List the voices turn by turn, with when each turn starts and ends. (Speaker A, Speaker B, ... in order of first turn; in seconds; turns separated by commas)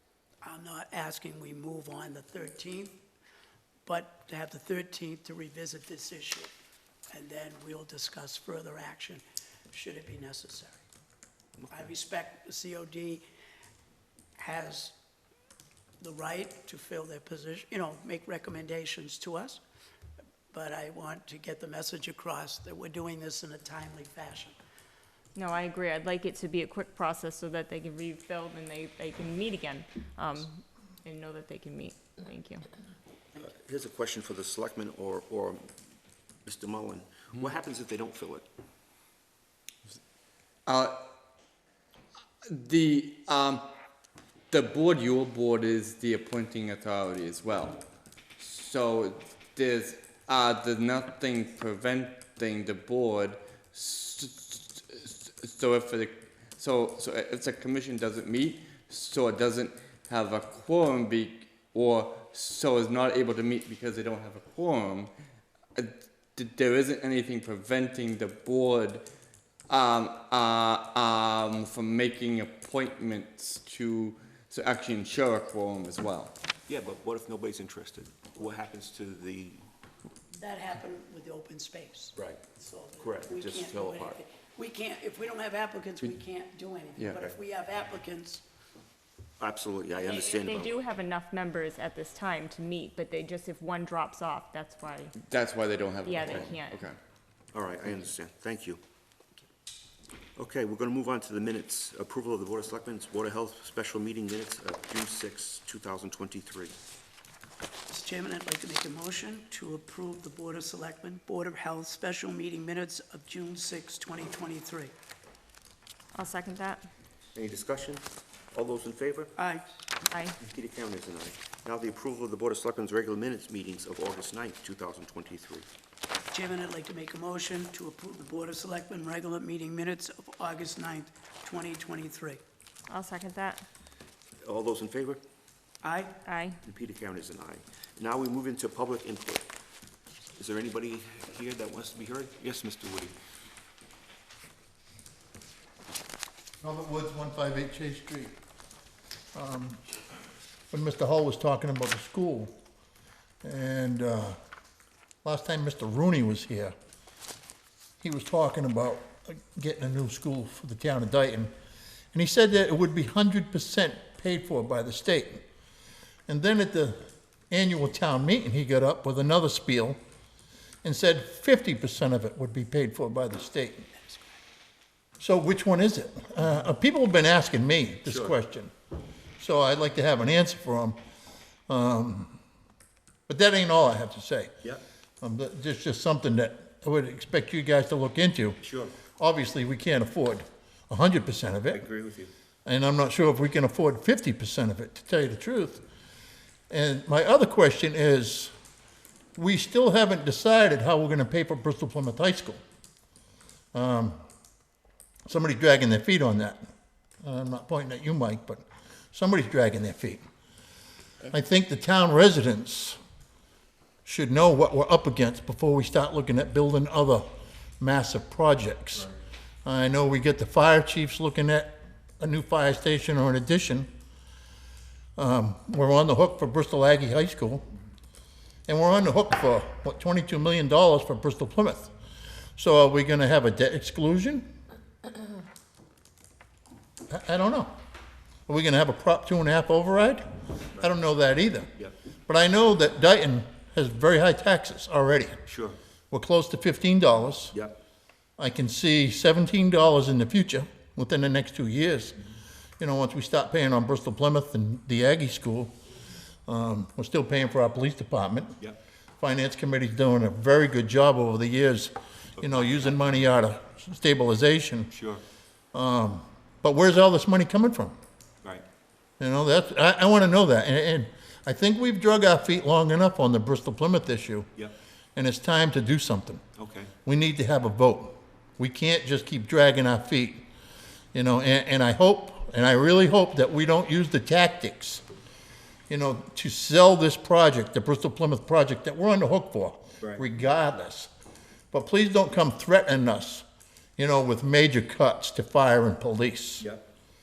Speaker A: 0.4-3.0, Speaker A: 3.8-6.5, Speaker A: 7.1-10.8, Speaker A: 11.7-13.2, Speaker A: 14.4-14.9, Speaker A: 16.0-19.6, Speaker A: 20.5-24.6, Speaker B: 25.4-32.6, Speaker C: 33.4-35.6, Speaker C: 36.4-38.5, Speaker D: 40.7-41.0, Speaker D: 42.4-43.6, Speaker D: 44.5-47.8, Speaker D: 48.4-65.1, Speaker D: 65.7-69.0, Speaker D: 69.7-76.3, Speaker C: 76.7-79.6, Speaker A: 80.3-88.4, Speaker C: 83.0-84.2, Speaker C: 89.4-90.8, Speaker B: 90.1-95.1, Speaker D: 95.2-97.0, Speaker B: 96.0-96.7, Speaker C: 97.5-98.8, Speaker C: 100.3-106.7, Speaker A: 107.9-114.9, Speaker B: 116.2-116.8, Speaker C: 117.3-119.3, Speaker A: 119.3-119.7, Speaker C: 120.4-125.7, Speaker A: 126.3-132.4, Speaker B: 132.9-133.6, Speaker C: 134.4-135.2, Speaker A: 135.8-136.2, Speaker B: 136.2-136.6, Speaker C: 136.6-139.5, Speaker C: 140.4-143.1, Speaker E: 146.6-148.4, Speaker E: 149.3-149.8, Speaker E: 150.7-152.5, Speaker E: 153.4-154.3, Speaker E: 155.2-156.7, Speaker E: 158.0-161.5, Speaker E: 162.1-165.4, Speaker E: 166.3-167.0, Speaker E: 167.5-170.0, Speaker E: 170.8-173.9, Speaker A: 174.1-174.4, Speaker E: 175.2-178.7, Speaker C: 178.1-178.3, Speaker E: 179.4-181.0, Speaker E: 181.7-182.4, Speaker E: 183.3-184.6, Speaker E: 185.2-188.6, Speaker C: 188.6-189.0, Speaker E: 189.2-191.8, Speaker C: 191.7-192.3, Speaker E: 192.7-195.8, Speaker E: 196.7-198.5, Speaker E: 199.3-202.6, Speaker E: 203.7-204.2, Speaker E: 205.3-206.6, Speaker E: 207.2-210.2, Speaker E: 211.3-213.0, Speaker E: 214.0-217.2, Speaker E: 217.8-219.1, Speaker E: 219.6-223.9, Speaker E: 225.2-227.7, Speaker E: 228.7-231.9, Speaker E: 232.6-234.4, Speaker E: 237.1-237.7, Speaker E: 238.5-241.7, Speaker E: 242.3-245.4, Speaker C: 245.5-245.8, Speaker E: 246.1-247.6, Speaker E: 248.4-252.2, Speaker E: 252.8-255.7, Speaker E: 256.5-258.6, Speaker E: 259.2-264.9, Speaker C: 262.4-262.8, Speaker C: 264.9-265.2, Speaker E: 265.7-268.0, Speaker E: 269.2-274.5, Speaker E: 275.1-276.4, Speaker C: 276.6-276.9, Speaker E: 277.0-280.4, Speaker E: 281.1-285.0, Speaker E: 285.9-291.1, Speaker E: 291.7-293.4, Speaker E: 294.0-296.7